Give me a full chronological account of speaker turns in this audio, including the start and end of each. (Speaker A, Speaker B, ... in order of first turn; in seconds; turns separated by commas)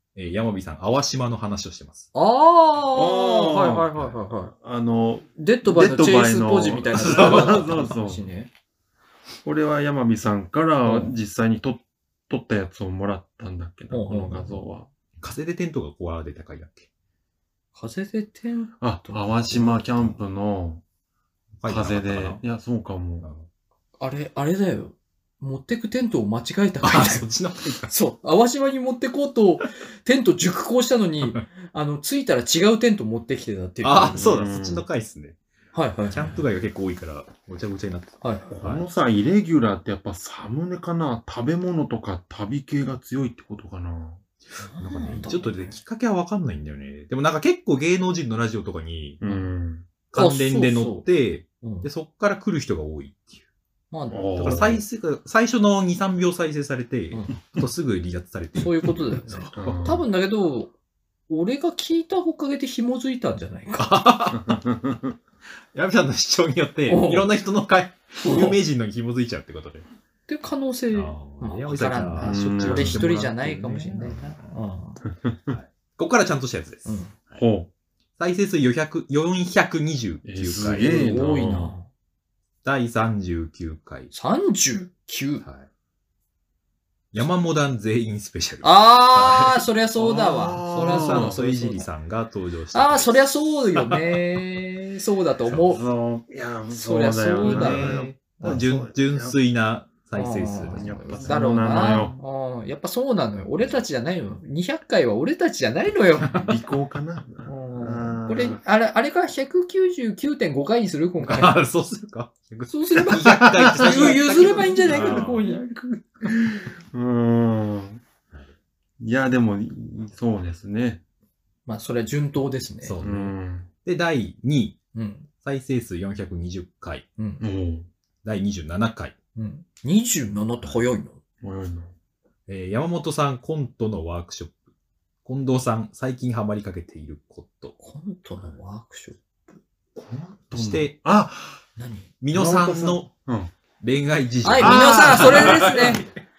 Speaker A: 0.1-2.1, Speaker B: 2.1-4.5, Speaker C: 2.9-8.3, Speaker B: 5.4-8.5, Speaker A: 7.1-7.6, Speaker C: 9.4-14.9, Speaker B: 10.8-11.2, Speaker B: 13.9-14.6, Speaker A: 15.2-16.9, Speaker B: 17.8-20.1, Speaker C: 18.8-20.8, Speaker A: 21.6-22.4, Speaker C: 21.7-23.3, Speaker B: 24.0-27.3, Speaker A: 26.8-27.9, Speaker B: 27.9-34.3, Speaker A: 33.8-35.4, Speaker C: 34.1-34.9, Speaker B: 35.7-36.4, Speaker A: 36.1-38.9, Speaker B: 38.2-38.5, Speaker C: 38.5-44.2, Speaker B: 44.6-45.8, Speaker A: 44.8-49.3, Speaker C: 49.2-49.9, Speaker A: 50.1-53.4, Speaker B: 50.1-51.1, Speaker B: 51.6-51.9, Speaker B: 53.9-54.8, Speaker C: 54.1-54.8, Speaker A: 54.4-59.6, Speaker B: 57.1-57.4, Speaker B: 58.6-60.7, Speaker C: 59.6-60.1, Speaker B: 61.3-64.0, Speaker A: 63.8-64.6, Speaker C: 64.3-65.2, Speaker A: 65.7-69.8, Speaker B: 66.9-67.3, Speaker B: 68.2-68.6, Speaker B: 70.3-75.0, Speaker A: 70.9-74.6, Speaker C: 72.2-73.1, Speaker C: 75.3-75.6, Speaker A: 75.5-77.4, Speaker B: 76.9-77.1, Speaker C: 77.4-77.7, Speaker A: 78.2-81.3, Speaker C: 80.2-81.7, Speaker B: 80.7-81.9, Speaker A: 82.6-84.1, Speaker B: 84.1-85.5, Speaker A: 87.1-89.7, Speaker B: 88.6-91.9, Speaker C: 90.0-91.4, Speaker A: 90.7-94.4, Speaker B: 92.7-95.8, Speaker C: 95.5-99.4, Speaker B: 96.7-98.6, Speaker A: 97.4-102.1, Speaker B: 100.2-106.5, Speaker C: 100.8-102.2, Speaker C: 106.3-108.6, Speaker B: 107.5-111.6, Speaker A: 111.2-115.4, Speaker B: 112.7-115.7, Speaker C: 113.3-118.0, Speaker C: 119.0-121.0, Speaker B: 121.7-123.0, Speaker A: 122.8-124.8, Speaker C: 123.0-123.7, Speaker B: 124.9-125.3, Speaker A: 125.4-127.1, Speaker B: 127.2-127.5, Speaker C: 127.4-127.9, Speaker A: 128.2-129.2, Speaker B: 129.3-131.2, Speaker C: 131.4-131.9, Speaker A: 132.5-134.6, Speaker A: 135.2-137.8, Speaker B: 137.8-139.2, Speaker C: 140.0-141.6, Speaker A: 140.5-140.9, Speaker B: 141.8-142.1, Speaker A: 142.2-143.1, Speaker C: 142.3-143.5, Speaker A: 143.8-146.1, Speaker B: 144.4-146.1, Speaker C: 144.6-146.0